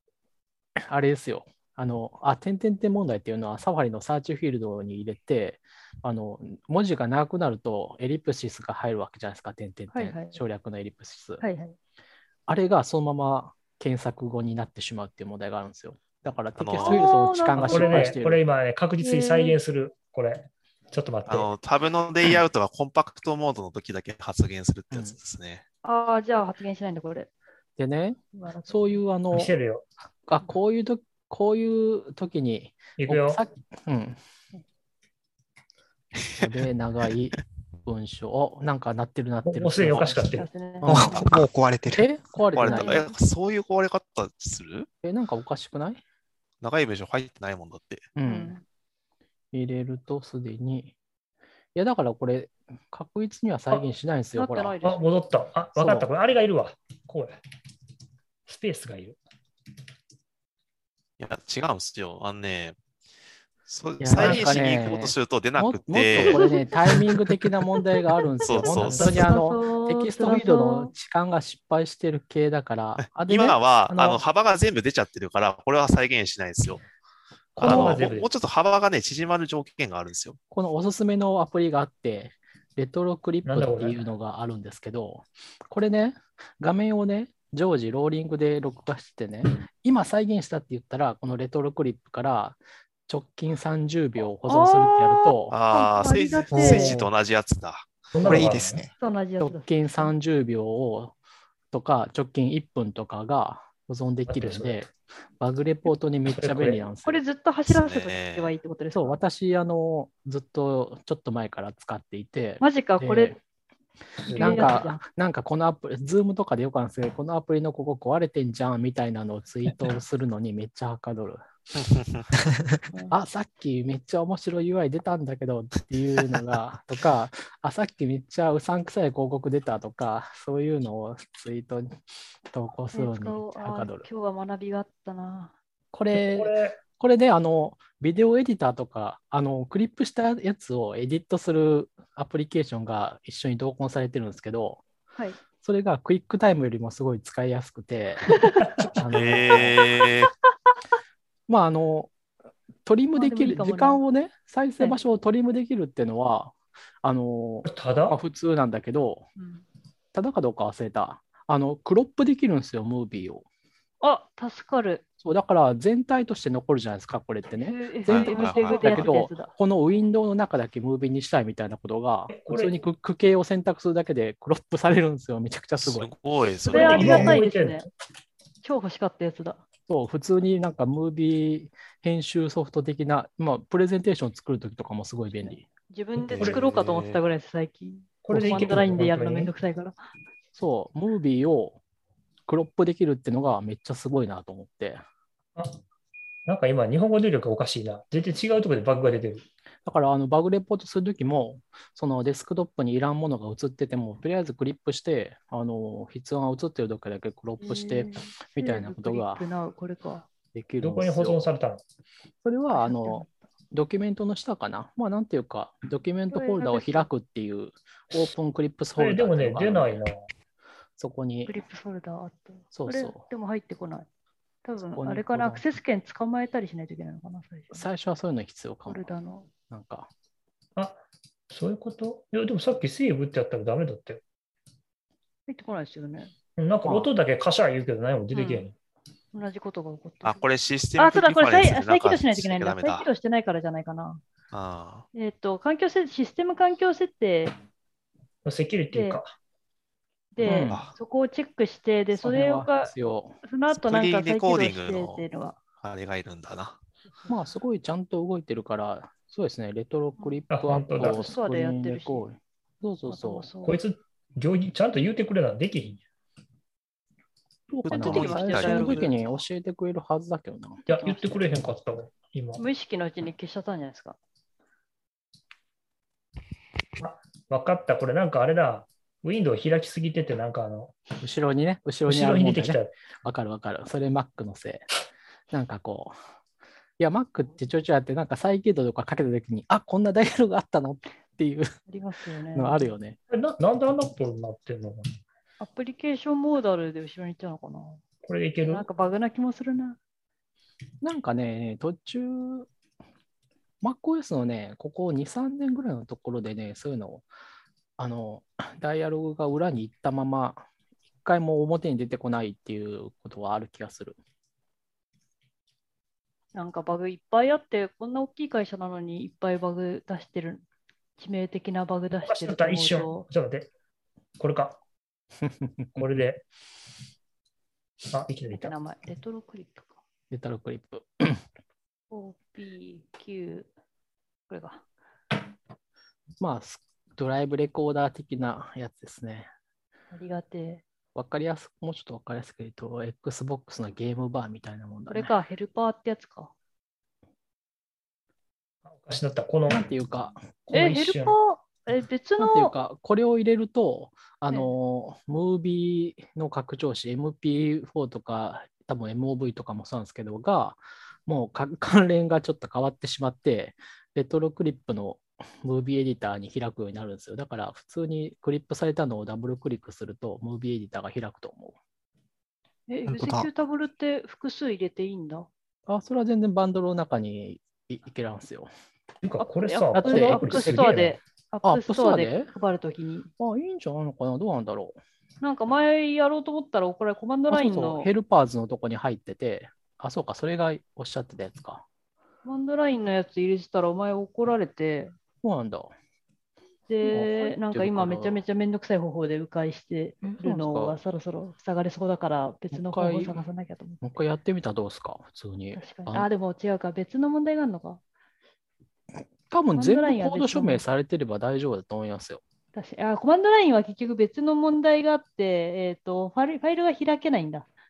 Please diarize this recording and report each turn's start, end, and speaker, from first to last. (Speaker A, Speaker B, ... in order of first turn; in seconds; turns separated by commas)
Speaker A: 0.8-11.4, Speaker B: 9.9-10.4, Speaker B: 11.4-11.8, Speaker A: 12.5-18.4, Speaker C: 16.6-17.1, Speaker B: 16.8-18.2, Speaker D: 17.6-21.5, Speaker B: 19.0-19.6, Speaker C: 21.3-25.6, Speaker A: 24.9-25.2, Speaker B: 25.8-27.3, Speaker A: 27.8-29.5, Speaker B: 28.3-29.0, Speaker D: 29.3-29.9, Speaker A: 30.2-34.2, Speaker D: 33.0-33.4, Speaker A: 36.3-40.3, Speaker D: 39.4-40.5, Speaker B: 40.4-41.3, Speaker A: 40.8-41.4, Speaker E: 40.8-42.1, Speaker A: 41.9-43.1, Speaker C: 42.5-44.9, Speaker B: 42.6-43.1, Speaker A: 45.0-46.0, Speaker C: 46.6-48.1, Speaker A: 48.2-48.6, Speaker B: 48.2-48.6, Speaker A: 49.5-51.0, Speaker A: 51.8-54.8, Speaker B: 54.4-55.1, Speaker D: 54.8-57.4, Speaker A: 55.8-56.1, Speaker D: 58.5-59.2, Speaker C: 61.2-62.8, Speaker C: 63.7-67.1, Speaker A: 64.0-74.2, Speaker D: 64.2-64.6, Speaker B: 66.2-66.8, Speaker C: 68.5-69.3, Speaker B: 68.6-70.9, Speaker D: 68.8-69.3, Speaker C: 73.0-76.8, Speaker A: 77.5-78.1, Speaker D: 77.6-78.3, Speaker C: 77.6-80.4, Speaker A: 80.5-95.5, Speaker D: 83.5-84.0, Speaker B: 94.5-96.9, Speaker C: 95.5-98.8, Speaker E: 96.5-97.1, Speaker D: 98.1-98.8, Speaker E: 98.2-98.9, Speaker B: 99.0-100.1, Speaker A: 99.4-101.2, Speaker A: 101.7-107.2, Speaker D: 104.3-104.8, Speaker D: 106.4-106.9, Speaker B: 107.0-109.2, Speaker C: 107.7-108.5, Speaker A: 109.0-113.4, Speaker B: 112.6-113.3, Speaker D: 114.2-114.8, Speaker B: 114.3-115.0, Speaker A: 114.4-121.4, Speaker A: 123.1-134.1, Speaker B: 132.9-135.5, Speaker A: 135.9-144.8, Speaker D: 136.1-136.8, Speaker A: 145.6-148.3, Speaker B: 148.3-148.7, Speaker A: 148.9-149.8, Speaker C: 149.1-150.3, Speaker A: 151.5-152.1, Speaker A: 152.8-159.3, Speaker B: 153.2-154.0, Speaker B: 154.8-155.1, Speaker D: 157.7-158.2, Speaker B: 159.4-159.6, Speaker A: 160.1-163.4, Speaker B: 164.0-165.0, Speaker A: 165.2-176.1, Speaker B: 167.6-169.5, Speaker C: 168.1-169.2, Speaker D: 172.3-172.8, Speaker C: 175.8-177.4, Speaker B: 176.7-177.9, Speaker D: 176.7-177.9, Speaker A: 176.9-177.3, Speaker B: 178.6-179.6, Speaker A: 179.9-185.7, Speaker B: 185.9-189.9, Speaker C: 186.3-187.2, Speaker D: 186.3-186.6, Speaker D: 188.3-189.5, Speaker A: 190.6-191.8, Speaker A: 192.5-195.0, Speaker D: 196.5-199.4, Speaker A: 199.8-209.4, Speaker B: 207.6-210.3, Speaker A: 210.5-211.5, Speaker D: 210.8-211.8, Speaker A: 212.4-220.0, Speaker B: 212.7-213.3, Speaker B: 216.3-217.1, Speaker D: 219.0-220.2, Speaker A: 221.0-221.6, Speaker B: 221.5-224.1, Speaker A: 222.7-223.2, Speaker B: 224.7-227.8, Speaker A: 225.0-225.7, Speaker A: 227.7-229.1, Speaker B: 228.9-229.5, Speaker A: 229.7-230.1, Speaker D: 230.8-234.2, Speaker B: 235.5-236.3, Speaker D: 236.6-238.8, Speaker B: 238.3-238.7, Speaker B: 239.3-240.4, Speaker C: 240.2-243.1, Speaker B: 241.0-244.2, Speaker C: 244.5-245.1, Speaker B: 245.1-247.6, Speaker D: 248.4-249.3, Speaker B: 248.9-249.2, Speaker B: 250.3-252.9, Speaker A: 250.4-250.8, Speaker C: 250.4-250.9, Speaker A: 252.2-253.4, Speaker B: 253.4-255.6, Speaker C: 253.7-255.2, Speaker C: 255.8-256.8, Speaker A: 257.3-263.5, Speaker D: 260.5-261.3, Speaker B: 261.1-262.2, Speaker B: 263.1-263.8, Speaker D: 263.6-266.0, Speaker A: 267.7-270.9, Speaker C: 267.8-269.1, Speaker B: 267.9-269.1, Speaker D: 270.9-272.6, Speaker B: 270.9-271.5, Speaker B: 272.6-274.2, Speaker D: 277.0-281.0, Speaker A: 281.2-284.9, Speaker D: 282.1-282.9, Speaker A: 285.5-286.2, Speaker A: 287.0-291.8, Speaker B: 291.9-292.9, Speaker A: 292.5-293.2, Speaker D: 293.3-295.2, Speaker B: 295.6-298.0, Speaker D: 298.2-298.9, Speaker B: 298.7-300.0, Speaker A: 301.0-302.7, Speaker A: 303.8-307.2, Speaker A: 308.0-310.7, Speaker A: 311.2-314.2, Speaker B: 316.6-320.6, Speaker B: 321.2-323.3, Speaker D: 322.2-323.7, Speaker D: 324.4-324.8, Speaker A: 325.4-326.0, Speaker D: 325.9-326.4, Speaker D: 328.1-328.8, Speaker B: 328.5-330.0, Speaker A: 330.3-331.4, Speaker B: 332.1-333.7, Speaker B: 334.5-334.8, Speaker A: 336.4-339.5, Speaker B: 340.1-340.8, Speaker A: 341.1-345.3, Speaker B: 345.1-346.5, Speaker D: 348.9-349.9, Speaker A: 349.7-350.4, Speaker D: 350.7-351.4, Speaker B: 350.7-352.8, Speaker A: 352.4-371.8, Speaker B: 372.9-375.5, Speaker A: 373.1-373.5, Speaker A: 375.9-378.7, Speaker D: 379.2-381.2, Speaker B: 379.4-383.3, Speaker A: 380.0-380.8, Speaker A: 381.6-382.5, Speaker A: 383.4-385.0, Speaker B: 385.4-388.1, Speaker A: 387.5-391.8, Speaker B: 392.4-395.2, Speaker A: 395.4-395.9, Speaker B: 396.9-404.0, Speaker A: 397.0-398.4, Speaker A: 400.2-401.0, Speaker A: 402.7-403.4, Speaker A: 404.0-406.3, Speaker B: 405.7-408.0, Speaker A: 409.2-412.4, Speaker B: 409.8-410.8, Speaker B: 412.7-417.7